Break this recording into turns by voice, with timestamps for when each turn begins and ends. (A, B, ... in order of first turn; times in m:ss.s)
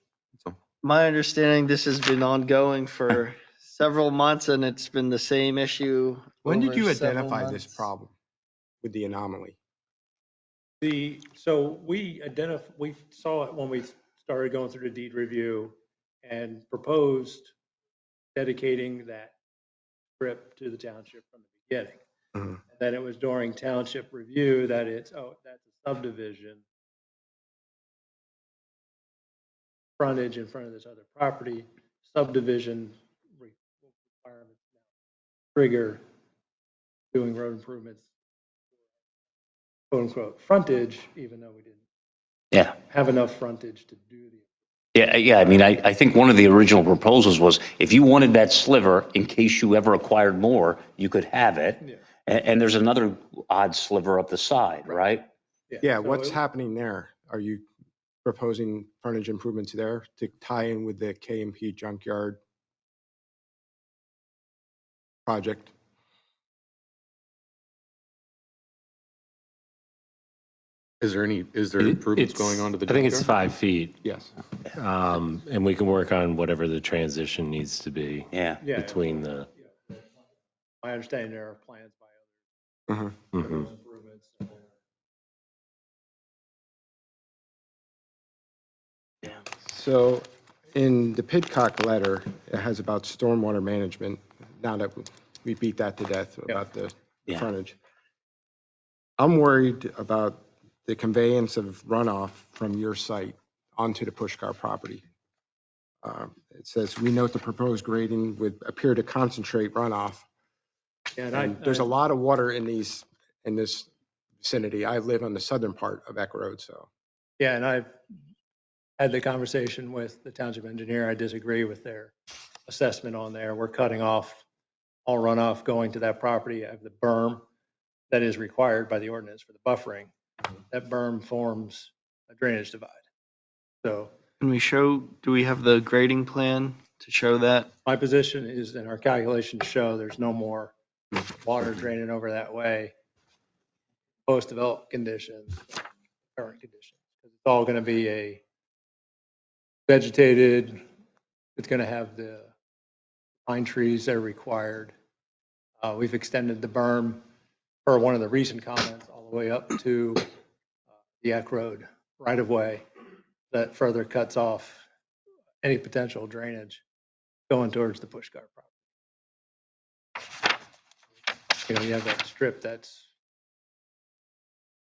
0:00.8-0:07.8 A
0:06.4-0:08.1 B
0:08.8-0:09.6 B
0:10.8-0:17.5 C
0:18.4-0:19.4 C
0:20.2-0:22.0 C
0:22.7-0:26.6 C
0:30.0-0:34.6 C
0:35.6-0:36.0 C
0:37.1-0:38.1 C
0:39.9-0:41.8 C
0:42.5-0:42.8 D
0:42.9-0:44.5 C
0:44.9-0:55.3 D
0:55.7-0:56.4 C
0:55.8-0:57.6 B
0:58.2-1:02.4 B
1:05.3-1:05.7 B
1:11.0-1:13.4 E
1:11.8-1:14.0 F
1:14.0-1:14.3 B
1:14.7-1:19.5 F
1:18.3-1:18.6 D
1:18.6-1:20.0 C
1:20.8-1:22.3 C
1:22.9-1:23.2 B
1:23.3-1:23.7 F
1:23.3-1:24.7 C
1:29.6-1:37.8 B
1:39.2-1:45.0 B
1:46.0-1:50.3 B
1:51.2-1:51.9 C
1:51.3-1:53.9 B
1:54.4-1:56.9 B
1:57.4-1:57.9 C
1:59.0-2:02.1 C
2:02.7-2:04.4 C
2:05.1-2:07.4 C
2:08.1-2:10.1 C
2:10.7-2:13.0 C
2:13.8-2:14.1 C
2:14.4-2:17.7 A
2:17.9-2:20.7 C
2:21.3-2:22.9 C
2:24.3-2:25.8 C
2:26.4-2:28.4 C
2:29.9-2:30.8 C
2:31.6-2:32.5 C
2:33.5-2:34.9 C
2:35.8-2:37.2 C
2:37.9-2:40.3 C
2:41.2-2:42.8 C
2:43.5-2:44.8 C
2:45.6-2:46.8 C
2:47.5-2:48.7 C
2:51.7-2:53.0 C